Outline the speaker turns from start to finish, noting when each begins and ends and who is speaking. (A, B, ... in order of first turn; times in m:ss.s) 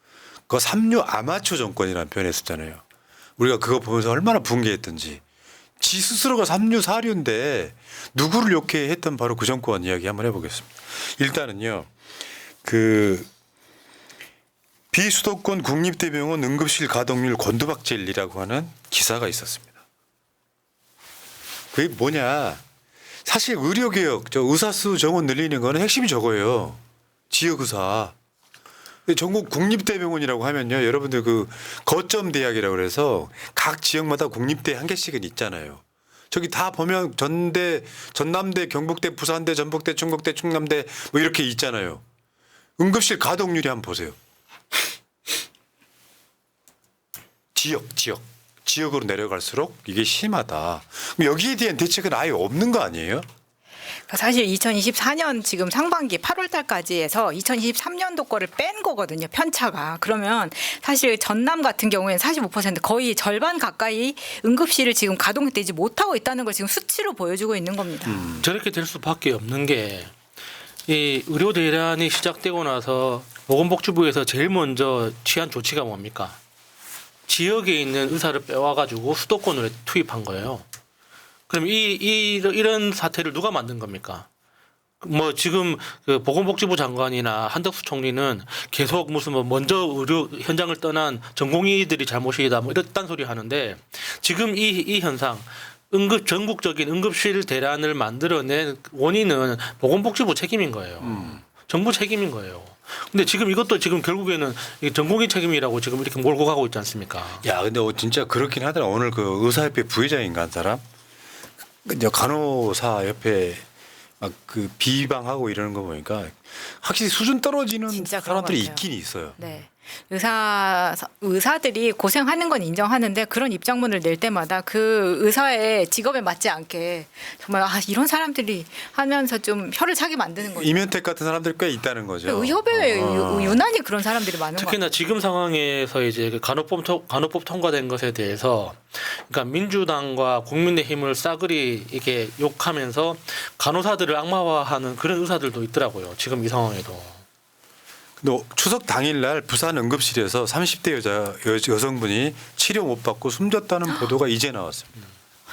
0:00.5-0:02.8 A
0:03.4-0:05.2 A
0:05.8-0:11.9 A
0:12.6-0:13.3 A
0:14.9-0:19.7 A
0:21.7-0:22.6 A
0:23.2-0:28.1 A
0:29.1-0:42.0 A
0:42.8-0:44.2 A
0:47.5-0:53.2 A
0:54.1-1:08.3 B
1:08.0-1:08.4 A
1:08.4-1:10.1 C
1:10.9-1:16.4 C
1:17.3-1:20.6 C
1:21.5-1:24.3 C
1:25.0-1:47.4 C
1:41.0-1:41.4 A
1:47.4-1:50.8 A
1:51.8-1:53.6 A
1:54.2-1:59.4 A
1:57.9-1:58.8 B
1:59.4-2:10.7 B
2:10.5-2:13.6 A
2:12.3-2:14.8 B
2:14.5-2:27.2 C
2:28.2-2:34.9 A